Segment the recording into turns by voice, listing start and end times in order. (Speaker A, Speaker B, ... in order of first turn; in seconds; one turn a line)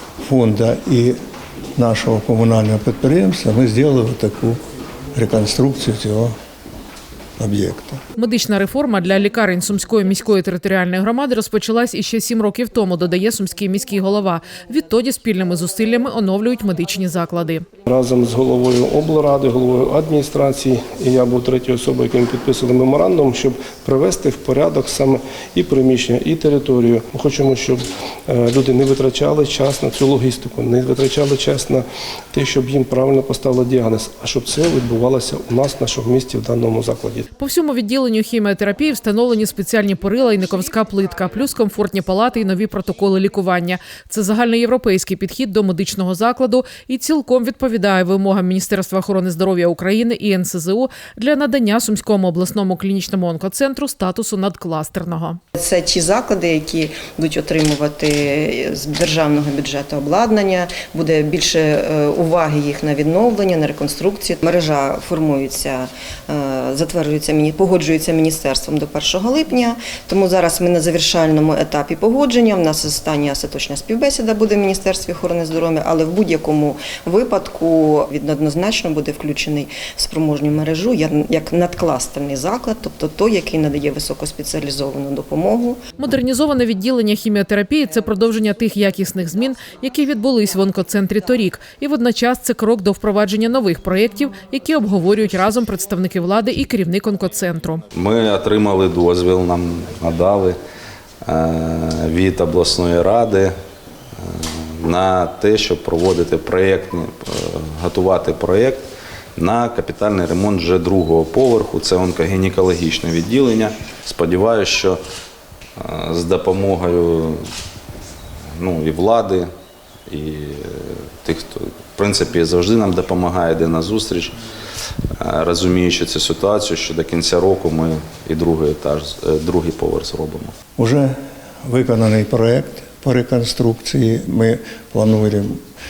Speaker A: 0.2-1.1
Speaker A: 1.8-4.6
Speaker A: 5.1-6.3
Speaker A: 7.4-8.0
Speaker B: 8.2-17.6
Speaker C: 17.9-37.2
Speaker B: 37.4-55.4
Speaker D: 55.5-85.8
Speaker B: 86.0-97.8
Speaker E: 97.9-100.6
Speaker E: 101.2-103.5
Speaker E: 104.2-108.8
Speaker E: 109.4-115.0
Speaker E: 115.8-117.4
Speaker E: 118.6-119.5
Speaker E: 120.1-124.3
Speaker E: 125.2-130.5
Speaker A: 130.8-135.6